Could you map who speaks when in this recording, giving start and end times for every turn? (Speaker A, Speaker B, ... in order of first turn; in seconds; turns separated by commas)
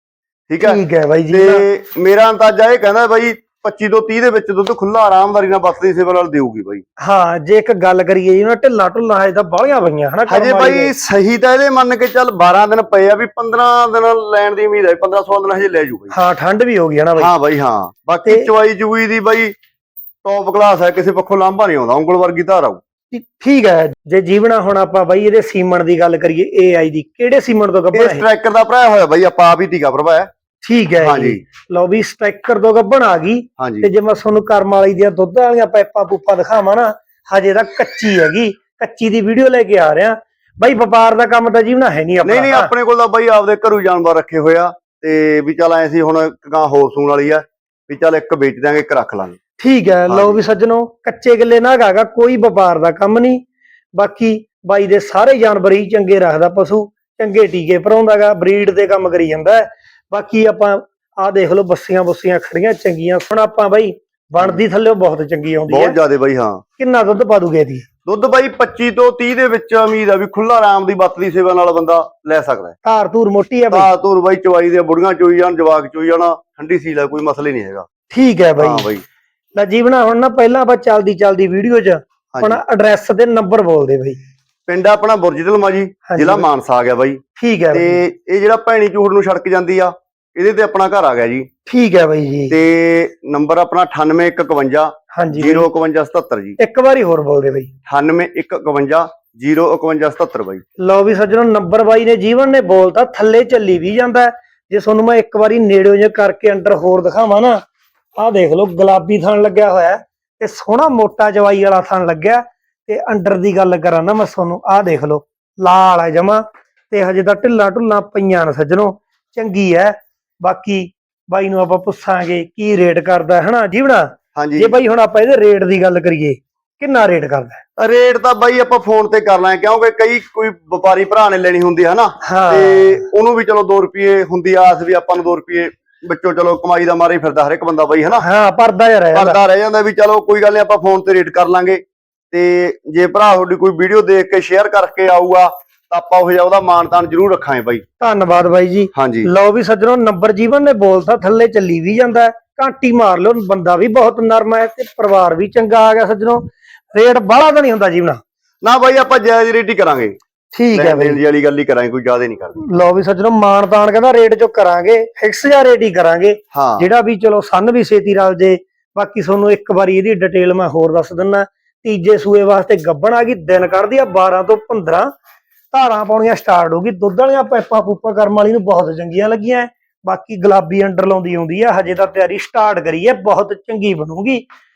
Speaker A: 0.5-0.8, Speaker B: 0.6-1.6, Speaker A: 1.3-6.8, Speaker B: 7.0-10.9, Speaker A: 10.3-16.1, Speaker B: 16.1-17.3, Speaker A: 17.2-19.5, Speaker A: 20.2-22.8, Speaker B: 23.1-28.2, Speaker A: 27.9-30.3, Speaker B: 30.6-42.7, Speaker A: 31.0-31.4, Speaker A: 33.6-33.9, Speaker A: 42.2-49.4, Speaker B: 49.6-53.4, Speaker A: 50.1-50.4, Speaker B: 54.0-66.0, Speaker A: 65.7-66.6, Speaker B: 66.8-67.8, Speaker A: 68.0-72.7, Speaker B: 72.8-73.9, Speaker A: 73.7-77.9, Speaker B: 78.1-78.9, Speaker A: 78.6-79.0, Speaker B: 79.5-84.2, Speaker A: 82.3-82.6, Speaker A: 84.7-91.5, Speaker B: 86.1-86.4, Speaker B: 87.3-88.0, Speaker B: 91.7-92.5, Speaker A: 92.5-96.6, Speaker B: 95.1-95.7, Speaker B: 96.6-97.7, Speaker A: 97.9-100.6, Speaker B: 100.8-107.6, Speaker B: 108.2-127.6, Speaker A: 124.3-124.8, Speaker A: 127.8-138.2, Speaker B: 132.2-133.1, Speaker B: 138.2-139.4, Speaker A: 139.1-147.8, Speaker B: 148.0-158.2, Speaker A: 148.9-149.3, Speaker A: 158.6-160.2, Speaker B: 160.5-161.2, Speaker A: 160.7-162.6, Speaker B: 162.6-175.1, Speaker A: 166.5-166.9, Speaker B: 175.7-184.4